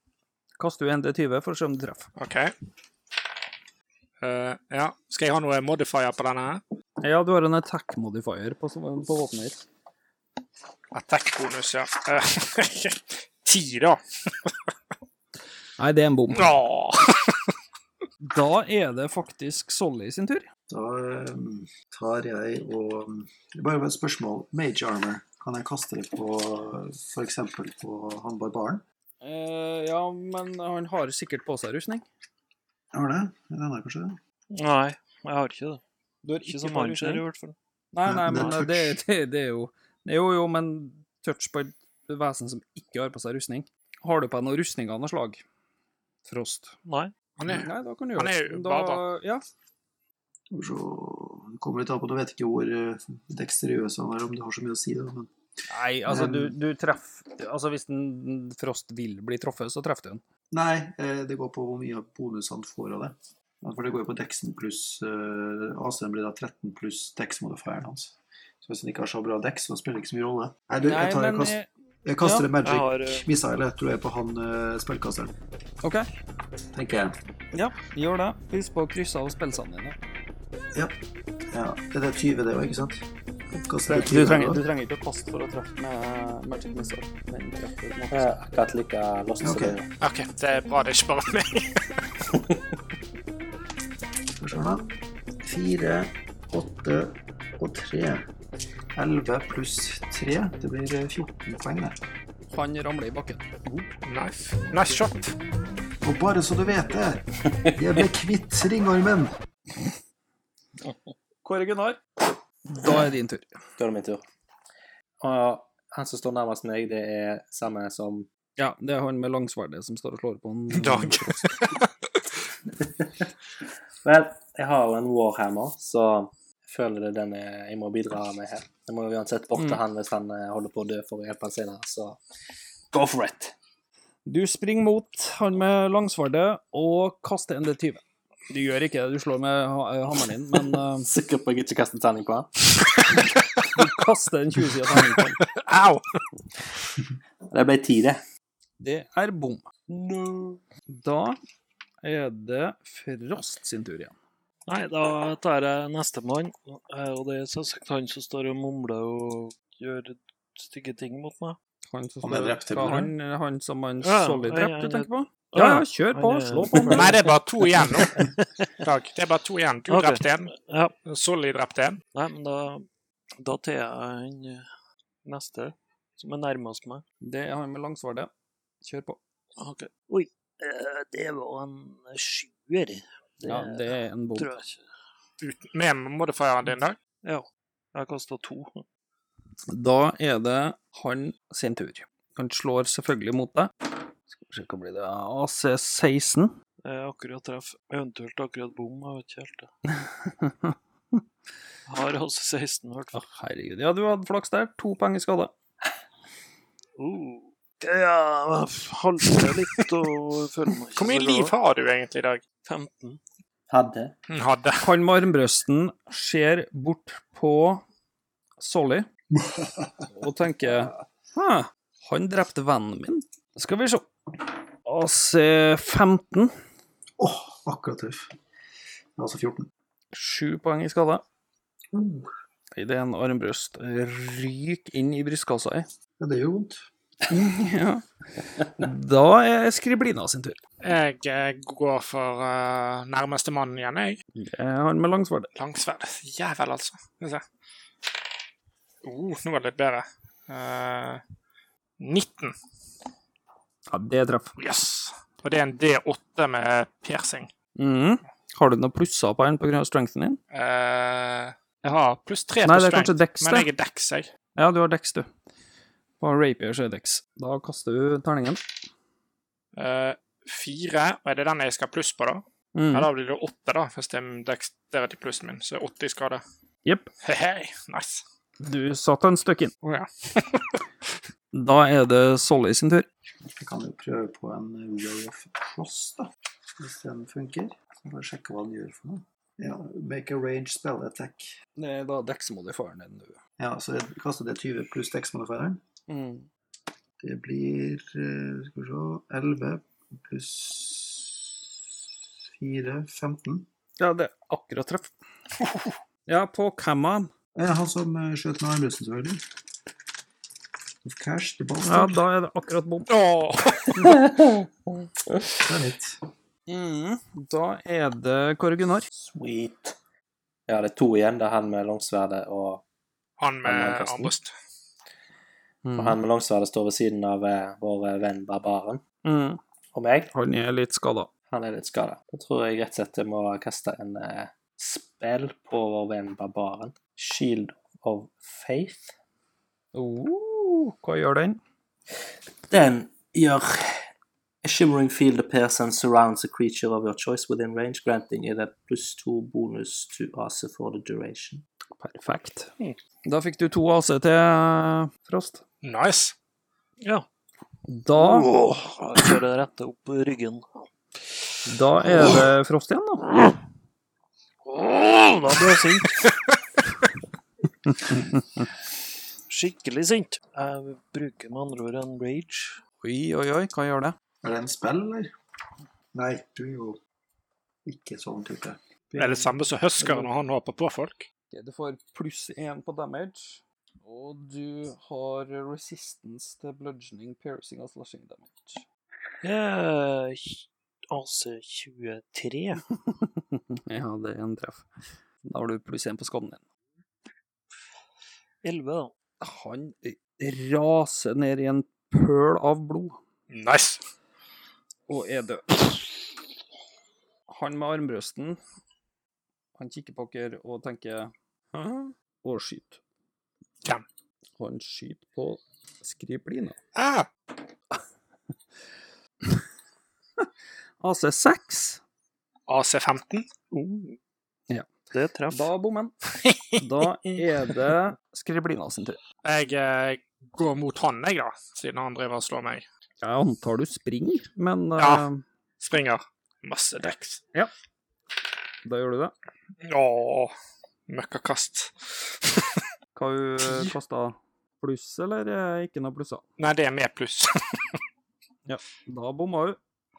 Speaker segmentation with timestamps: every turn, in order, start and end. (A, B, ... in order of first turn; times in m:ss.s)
0:00.6-0:02.1 A
0:02.2-0:02.5 B
0:04.2-0:06.6 B
0:07.0-0:09.6 A
0:10.9-0:14.5 B
0:15.8-0:16.5 A
0:16.3-0:17.5 B
0:18.2-0:20.5 A
0:20.7-0:28.8 C
0:29.2-0:32.1 A
0:32.9-0:34.2 C
0:34.5-0:35.8 D
0:36.2-0:37.2 A
0:36.4-0:37.6 D
0:37.9-0:45.4 A
0:38.1-0:39.0 C
0:46.3-0:46.8 A
0:46.9-0:47.1 D
0:47.4-0:49.0 B
0:47.5-0:49.4 A
0:50.5-0:55.3 C
0:55.7-1:00.2 A
0:56.1-0:56.6 C
1:00.5-1:15.3 C
1:10.8-1:11.7 A
1:12.2-1:12.5 A
1:12.6-1:13.3 D
1:16.7-1:17.2 C
1:17.5-1:20.0 A
1:21.5-1:24.6 C
1:23.9-1:28.4 A
1:28.1-1:29.9 E
1:29.4-1:29.8 C
1:30.0-1:31.8 B
1:32.3-1:32.6 E
1:34.4-1:38.3 C
1:39.0-1:42.0 C
1:42.5-1:43.8 A
1:44.0-1:45.3 B
1:46.0-1:49.4 C
1:51.4-1:52.0 A
1:52.7-1:53.5 A
1:53.8-1:54.2 E
1:55.2-1:58.3 E
1:58.6-2:01.4 A
2:00.7-2:01.9 B
2:02.8-2:03.3 E
2:04.0-2:12.2 E
2:09.6-2:09.8 A
2:12.9-2:13.6 E
2:14.3-2:21.1 A
2:21.0-2:22.5 E
2:23.0-2:23.7 B
2:23.7-2:25.4 A
2:25.4-2:26.2 B
2:27.5-2:28.2 E
2:28.8-2:29.6 A
2:30.9-2:31.4 A
2:32.0-2:34.2 A
2:34.7-2:41.6 D
2:41.9-2:47.3 A
2:42.2-2:43.1 C
2:44.0-2:48.7 D
2:46.9-2:48.2 B
2:48.8-2:50.5 B
2:49.9-2:50.9 D
2:51.0-2:52.0 B
2:52.2-2:52.9 D
2:53.4-2:54.7 D
2:55.2-2:57.0 D
2:57.2-2:58.3 A
2:58.8-2:59.2 A
2:59.6-3:04.8 D
3:03.4-3:04.5 A
3:05.4-3:07.0 B
3:07.2-3:08.8 D
3:09.7-3:13.7 A
3:14.3-3:16.5 A
3:16.8-3:19.7 D
3:19.9-3:21.2 A
3:21.9-3:23.2 D
3:23.1-3:25.5 A
3:27.0-3:31.5 D
3:31.0-3:32.4 B
3:32.6-3:33.2 D
3:33.7-3:34.1 E
3:34.3-3:34.9 B
3:34.8-3:37.8 A
3:38.6-3:39.1 A
3:39.3-3:39.9 C
3:40.1-3:44.1 A
3:44.8-3:46.5 A
3:47.2-3:48.3 C
3:49.2-3:49.7 C
3:50.1-3:51.2 A
3:51.9-3:52.3 C
3:52.8-3:55.9 A
3:56.2-3:56.9 C
3:57.3-4:00.6 A
4:00.8-4:04.2 B
4:04.4-4:05.5 A
4:05.6-4:07.4 B
4:09.0-4:11.2 B
4:12.0-4:12.6 B
4:13.9-4:14.6 A
4:14.6-4:17.5 B
4:17.8-4:20.4 A
4:20.5-4:24.3 B
4:22.6-4:23.7 A
4:24.6-4:25.3 A
4:26.2-4:28.6 A
4:29.8-4:36.4 B
4:32.8-4:33.1 A
4:37.2-4:38.2 B
4:38.6-4:39.7 A
4:39.8-4:40.8 B
4:41.5-4:43.1 A
4:43.5-4:51.6 C
4:51.8-4:53.4 A
4:53.6-4:55.8 C
4:56.1-4:56.5 A
4:57.2-5:01.6 C
5:02.6-5:03.7 C
5:04.0-5:05.1 A
5:06.3-5:07.3 A
5:07.6-5:09.4 C
5:11.0-5:12.2 C
5:11.8-5:13.1 A
5:13.1-5:14.1 B
5:14.1-5:14.6 E
5:15.6-5:16.2 C
5:16.7-5:19.1 A
5:19.2-5:20.0 E
5:20.7-5:22.8 E
5:23.4-5:24.5 B
5:23.6-5:24.3 E
5:25.8-5:26.2 A
5:26.0-5:29.0 E
5:29.2-5:29.6 A
5:29.9-5:30.3 E
5:30.3-5:31.3 A
5:31.5-5:39.1 E
5:39.9-5:41.6 A
5:42.7-5:44.1 E
5:44.6-5:51.6 E
5:52.0-5:52.7 A
5:53.3-5:55.6 A
5:55.8-5:56.4 B
5:57.9-5:58.5 A
5:58.1-6:00.8 D
6:01.7-6:03.4 A
6:04.7-6:06.2 D
6:07.9-6:08.7 A
6:09.5-6:12.8 D
6:13.0-6:14.2 A
6:14.4-6:15.3 C
6:16.1-6:17.0 C
6:17.9-6:18.8 C
6:19.1-6:19.6 D
6:19.2-6:21.3 B
6:21.5-6:28.8 A
6:29.4-6:32.8 D
6:33.0-6:34.9 A
6:35.4-6:36.6 A
6:38.6-6:39.1 D
6:39.4-6:43.2 A
6:43.5-6:44.0 B
6:45.1-6:46.0 A
6:47.5-6:48.6 A
6:49.8-6:53.0 A
6:54.6-6:56.8 A
6:57.0-6:57.3 B
7:01.0-7:02.0 A
7:02.7-7:04.1 B
7:05.1-7:05.7 D
7:05.5-7:06.1 A
7:06.4-7:06.8 B
7:06.8-7:09.2 A
7:09.4-7:12.8 B
7:13.2-7:15.4 A
7:15.0-7:15.3 B
7:15.8-7:17.4 B
7:17.0-7:17.7 A
7:18.8-7:19.3 A
7:19.8-7:20.5 B
7:21.1-7:22.8 B
7:23.2-7:26.4 A
7:26.6-7:27.5 B
7:28.7-7:29.8 A